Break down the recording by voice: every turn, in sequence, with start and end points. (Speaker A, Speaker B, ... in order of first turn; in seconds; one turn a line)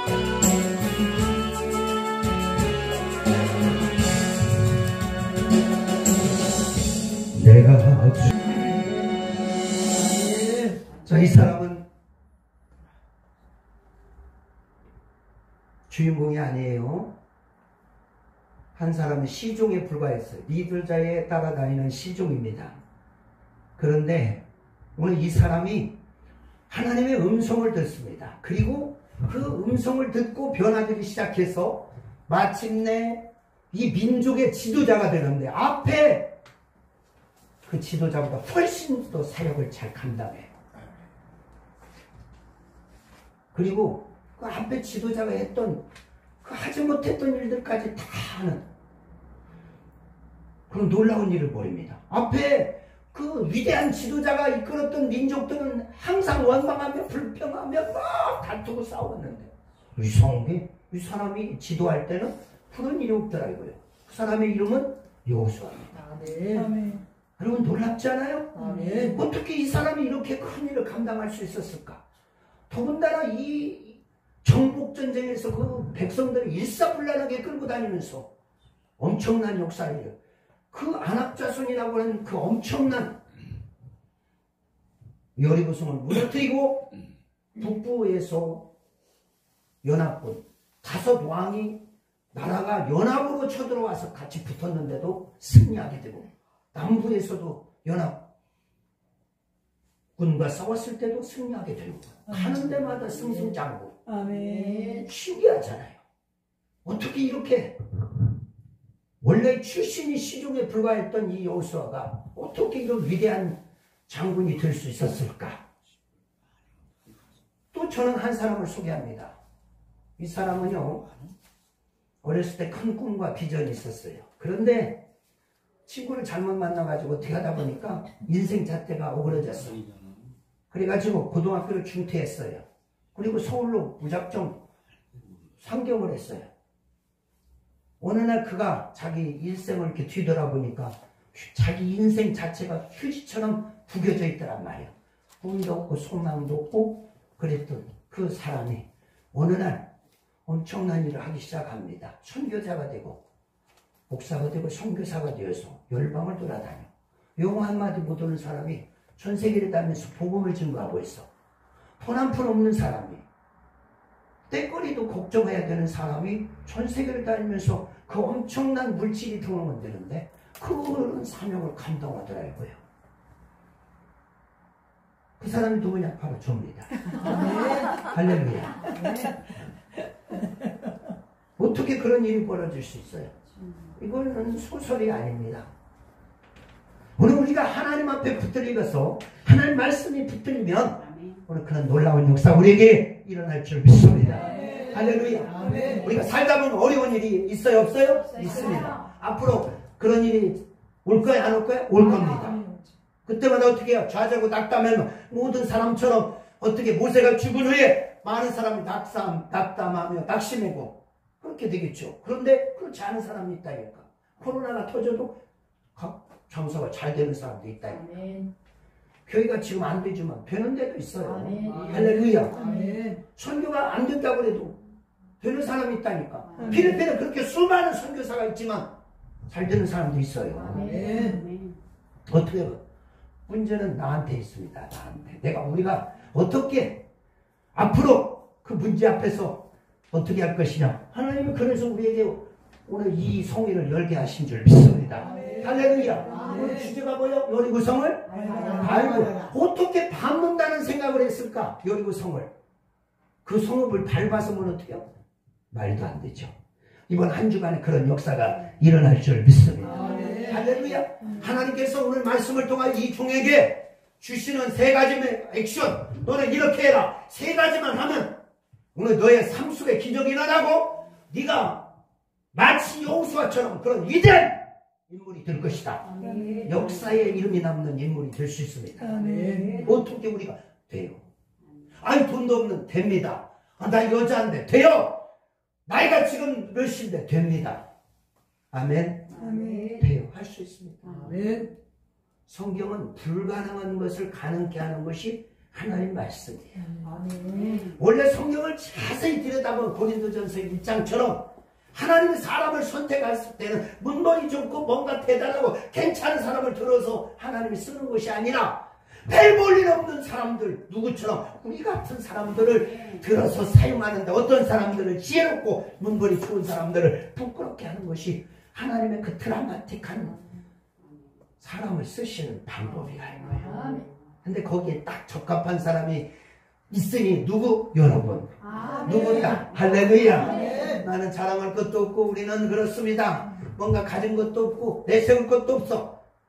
Speaker A: 7.3-8.3
Speaker A: 11.0-11.8
Speaker A: 15.9-17.1
Speaker A: 18.7-22.8
Speaker A: 23.8-24.4
Speaker A: 24.9-25.9
Speaker A: 26.7-36.3
Speaker A: 37.6-40.5
Speaker A: 43.5-45.8
Speaker A: 46.4-48.6
Speaker A: 50.7-66.0
Speaker B: 66.0-67.0
Speaker A: 67.4-72.0
Speaker B: 68.5-69.2
Speaker C: 68.6-69.2
Speaker A: 72.7-78.3
Speaker A: 79.0-80.1
Speaker A: 80.7-83.2
Speaker A: 85.3-86.9
Speaker A: 87.5-88.7
Speaker A: 89.8-91.8
Speaker A: 92.3-98.2
Speaker A: 100.2-103.9
Speaker B: 102.3-102.7
Speaker B: 104.0-105.0
Speaker C: 104.3-105.0
Speaker A: 105.0-106.0
Speaker A: 106.8-107.8
Speaker A: 109.2-115.6
Speaker A: 117.7-119.4
Speaker A: 120.2-121.1
Speaker A: 122.2-125.0
Speaker A: 125.9-129.9
Speaker A: 130.7-134.6
Speaker A: 135.6-136.5
Speaker A: 138.0-149.9
Speaker A: 150.4-153.2
Speaker A: 154.1-161.3
Speaker A: 162.0-163.2
Speaker A: 164.5-172.8
Speaker A: 175.4-178.9
Speaker B: 177.2-177.9
Speaker B: 178.9-179.3
Speaker C: 178.9-179.2
Speaker A: 181.6-183.3
Speaker A: 184.0-185.7
Speaker A: 187.2-202.6
Speaker C: 191.0-191.4
Speaker B: 194.4-196.1
Speaker C: 198.3-199.1
Speaker B: 202.0-202.9
Speaker A: 203.2-215.4
Speaker A: 215.9-218.1
Speaker C: 217.8-218.5
Speaker A: 219.2-222.6
Speaker C: 221.2-223.1
Speaker B: 221.6-223.2
Speaker A: 223.3-224.8
Speaker A: 225.4-228.9
Speaker C: 226.5-226.9
Speaker B: 226.6-227.0
Speaker A: 229.5-230.9
Speaker C: 230.5-231.8
Speaker B: 230.7-231.4
Speaker A: 232.3-232.8
Speaker A: 233.5-237.0
Speaker A: 237.7-252.5
Speaker B: 245.2-246.8
Speaker C: 246.3-246.7
Speaker C: 248.3-249.4
Speaker B: 248.4-249.4
Speaker A: 253.4-255.1
Speaker A: 255.7-256.5
Speaker A: 257.1-268.3
Speaker B: 259.9-260.7
Speaker C: 259.9-260.7
Speaker B: 261.2-261.5
Speaker A: 268.9-271.8
Speaker A: 272.5-276.1
Speaker C: 276.0-277.3
Speaker B: 276.2-276.7
Speaker A: 276.6-279.2
Speaker B: 279.0-279.9
Speaker C: 279.2-280.0
Speaker A: 279.8-281.2
Speaker A: 282.0-285.2
Speaker A: 285.9-287.8
Speaker A: 288.7-289.3
Speaker C: 289.3-290.0
Speaker B: 289.4-290.0
Speaker A: 290.0-291.0
Speaker C: 291.0-291.7
Speaker B: 291.0-291.7
Speaker A: 292.5-296.9
Speaker B: 296.8-297.8
Speaker C: 297.2-297.9
Speaker A: 297.7-320.4
Speaker C: 312.9-313.2
Speaker A: 321.6-323.8
Speaker C: 323.4-324.1
Speaker B: 323.6-324.0
Speaker A: 324.4-326.3
Speaker A: 326.9-336.2
Speaker C: 328.6-331.0
Speaker B: 330.5-330.9